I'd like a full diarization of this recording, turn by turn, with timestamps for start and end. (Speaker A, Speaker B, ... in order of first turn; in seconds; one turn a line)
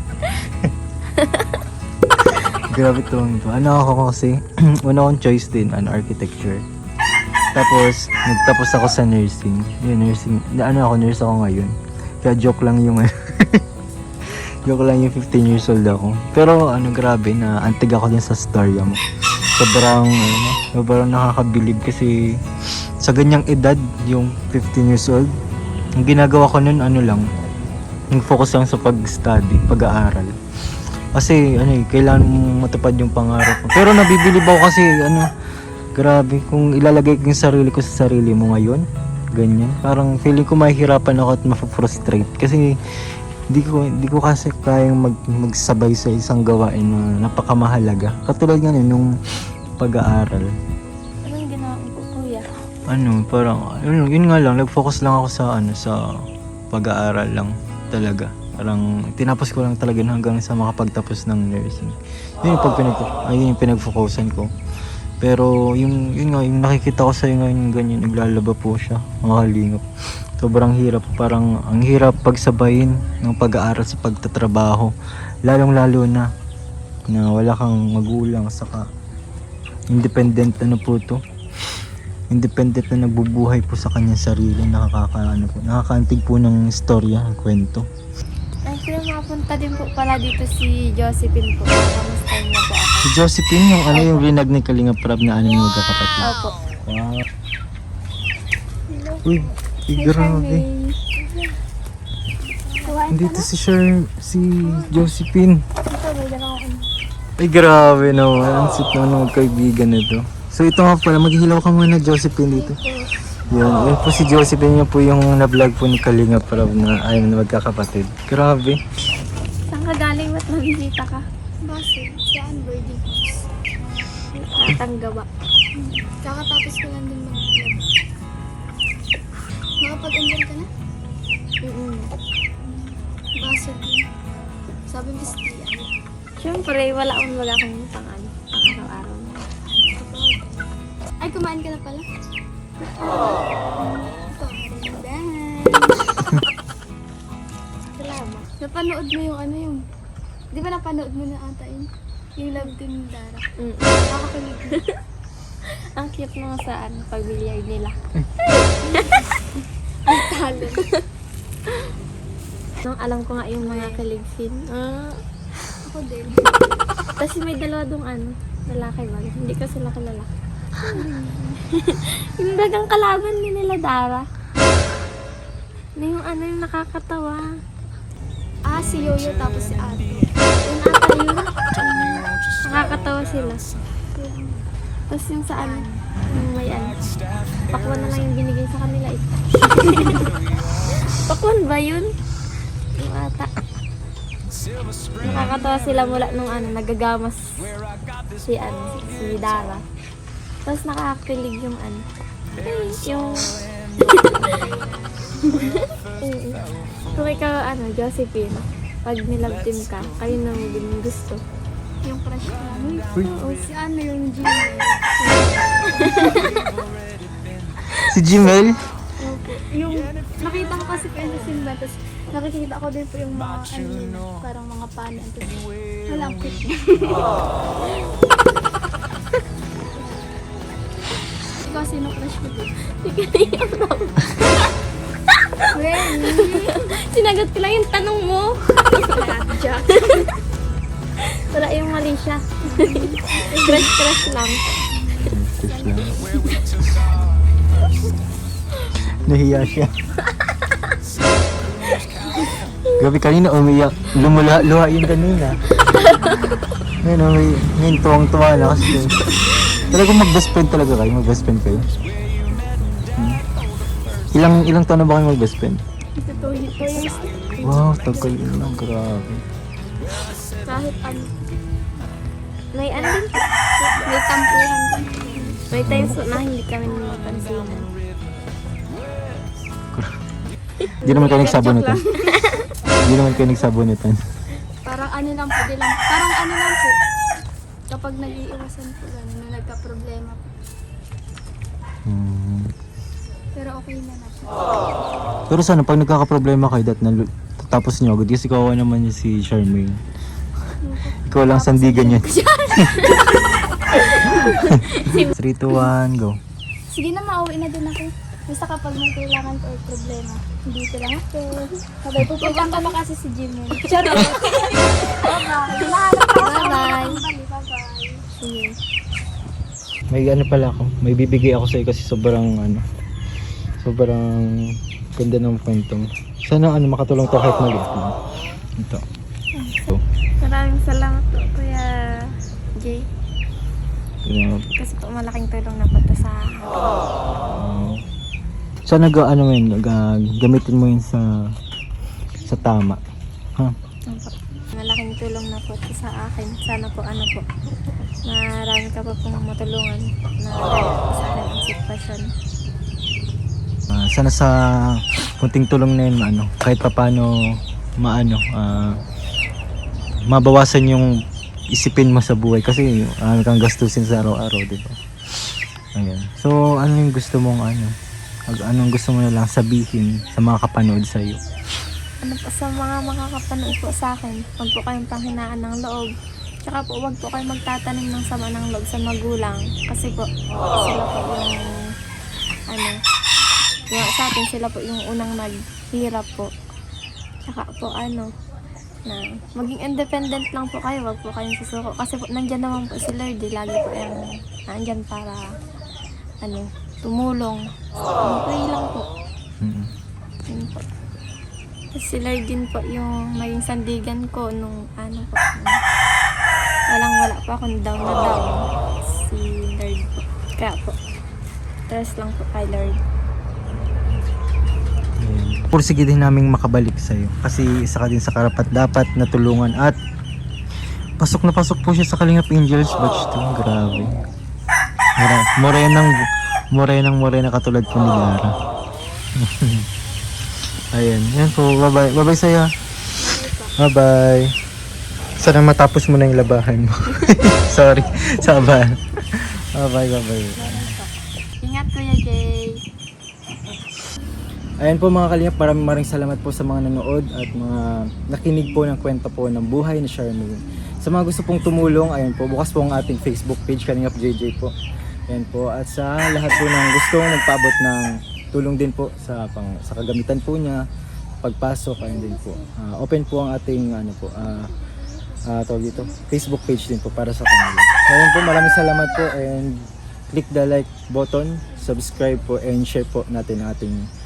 Speaker A: 0.2-0.5
Speaker A: 1.1-1.6
Speaker B: 2.3-6.6
Speaker B: 7.5-13.6
Speaker B: 14.6-19.0
Speaker B: 19.5-22.4
Speaker B: 23.0-25.3
Speaker B: 26.0-27.3
Speaker B: 28.1-30.3
Speaker B: 31.1-35.3
Speaker B: 36.0-42.7
Speaker B: 43.5-49.1
Speaker B: 49.8-50.5
Speaker A: 51.2-52.5
Speaker B: 52.9-56.0
Speaker B: 56.7-64.5
Speaker B: 65.2-69.8
Speaker B: 70.4-74.9
Speaker B: 75.5-76.3
Speaker B: 77.1-78.8
Speaker B: 79.9-81.2
Speaker B: 82.3-87.8
Speaker A: 88.7-93.1
Speaker B: 93.0-96.3
Speaker A: 93.9-94.3
Speaker A: 96.2-96.6
Speaker B: 96.9-97.2
Speaker C: 98.9-99.3
Speaker B: 99.2-100.7
Speaker C: 99.9-101.5
Speaker C: 102.7-103.5
Speaker B: 103.1-105.6
Speaker C: 105.8-106.8
Speaker B: 107.4-112.8
Speaker C: 112.5-113.0
Speaker B: 113.5-118.8
Speaker A: 119.7-121.2
Speaker C: 121.7-123.5
Speaker A: 124.3-125.3
Speaker C: 125.8-127.8
Speaker C: 129.8-130.7
Speaker A: 131.6-132.1
Speaker C: 132.7-134.0
Speaker C: 134.9-135.9
Speaker A: 136.4-139.4
Speaker C: 139.7-140.7
Speaker C: 141.2-142.1
Speaker C: 142.8-146.2
Speaker A: 147.9-148.4
Speaker C: 148.4-149.8
Speaker C: 150.5-153.5
Speaker A: 153.6-154.1
Speaker C: 154.1-154.8
Speaker A: 155.6-159.2
Speaker C: 158.8-159.5
Speaker C: 160.1-160.8
Speaker A: 160.2-161.0
Speaker A: 162.8-165.8
Speaker C: 163.6-164.0
Speaker C: 165.8-166.6
Speaker A: 167.2-170.3
Speaker C: 170.8-171.6
Speaker A: 170.8-171.1
Speaker A: 171.7-174.2
Speaker A: 176.0-177.5
Speaker C: 178.6-182.3
Speaker A: 180.7-181.5
Speaker A: 182.6-183.6
Speaker C: 184.1-184.6
Speaker A: 185.1-187.0
Speaker C: 185.6-186.0
Speaker A: 187.7-190.3
Speaker A: 190.9-192.1
Speaker A: 193.0-193.5
Speaker A: 195.2-197.7
Speaker B: 195.2-195.5
Speaker A: 198.4-199.8
Speaker A: 200.7-202.0
Speaker A: 202.6-204.6
Speaker C: 204.4-205.6
Speaker A: 205.4-211.4
Speaker C: 212.0-216.6
Speaker A: 213.2-213.7
Speaker A: 215.2-216.6
Speaker B: 217.9-218.9
Speaker C: 219.2-227.3
Speaker C: 231.6-232.8
Speaker A: 232.9-234.7
Speaker A: 235.3-240.3
Speaker C: 235.7-236.8
Speaker C: 238.9-240.3
Speaker A: 241.2-244.7
Speaker C: 242.6-243.9
Speaker B: 245.2-246.2
Speaker C: 245.8-246.6
Speaker B: 249.2-249.9
Speaker A: 250.2-251.0
Speaker A: 252.6-252.9
Speaker B: 252.9-255.6
Speaker A: 255.8-256.6
Speaker B: 257.0-261.9
Speaker B: 263.1-263.4
Speaker B: 264.3-265.8
Speaker C: 266.2-268.8
Speaker B: 267.6-269.4
Speaker C: 270.6-271.3
Speaker A: 272.7-273.4
Speaker C: 272.9-275.6
Speaker A: 275.7-277.9
Speaker B: 275.7-276.2
Speaker A: 280.8-282.7
Speaker B: 281.0-282.0
Speaker C: 282.1-282.4
Speaker B: 283.0-284.2
Speaker C: 284.8-286.9
Speaker C: 287.9-290.5
Speaker B: 292.1-292.7
Speaker C: 293.5-294.5
Speaker B: 295.5-300.0
Speaker C: 300.8-304.5
Speaker B: 301.2-303.3
Speaker A: 303.9-305.3
Speaker B: 304.2-306.4
Speaker C: 306.9-318.2
Speaker A: 312.3-313.0
Speaker A: 313.8-317.2
Speaker A: 318.4-318.8
Speaker B: 320.1-322.8
Speaker B: 323.8-328.1
Speaker B: 328.8-329.0
Speaker A: 329.6-329.9
Speaker A: 330.4-333.1
Speaker B: 334.2-334.7
Speaker A: 334.8-337.0
Speaker B: 337.5-338.0
Speaker B: 338.9-341.4
Speaker B: 342.4-343.0
Speaker A: 344.1-347.4
Speaker A: 348.2-352.3
Speaker B: 353.9-359.0
Speaker B: 360.3-361.2
Speaker B: 361.7-365.0
Speaker B: 365.9-367.9
Speaker B: 368.5-371.4
Speaker A: 372.2-376.1
Speaker A: 376.6-381.7
Speaker A: 382.7-383.0
Speaker A: 383.9-386.5
Speaker A: 387.4-388.3
Speaker A: 389.1-395.5
Speaker A: 396.4-397.6
Speaker A: 398.2-399.1
Speaker B: 399.6-399.9
Speaker A: 400.5-400.9
Speaker A: 401.9-405.8
Speaker A: 406.9-411.0
Speaker A: 411.9-413.0
Speaker B: 415.2-420.0
Speaker B: 421.2-424.2
Speaker B: 425.2-428.5
Speaker B: 429.4-429.9
Speaker B: 430.9-432.7
Speaker A: 433.2-433.8
Speaker B: 433.8-434.5
Speaker B: 435.4-440.9
Speaker A: 440.6-441.1
Speaker A: 441.6-442.8
Speaker B: 444.8-454.7
Speaker B: 455.3-460.9
Speaker B: 461.4-464.7
Speaker B: 465.4-474.1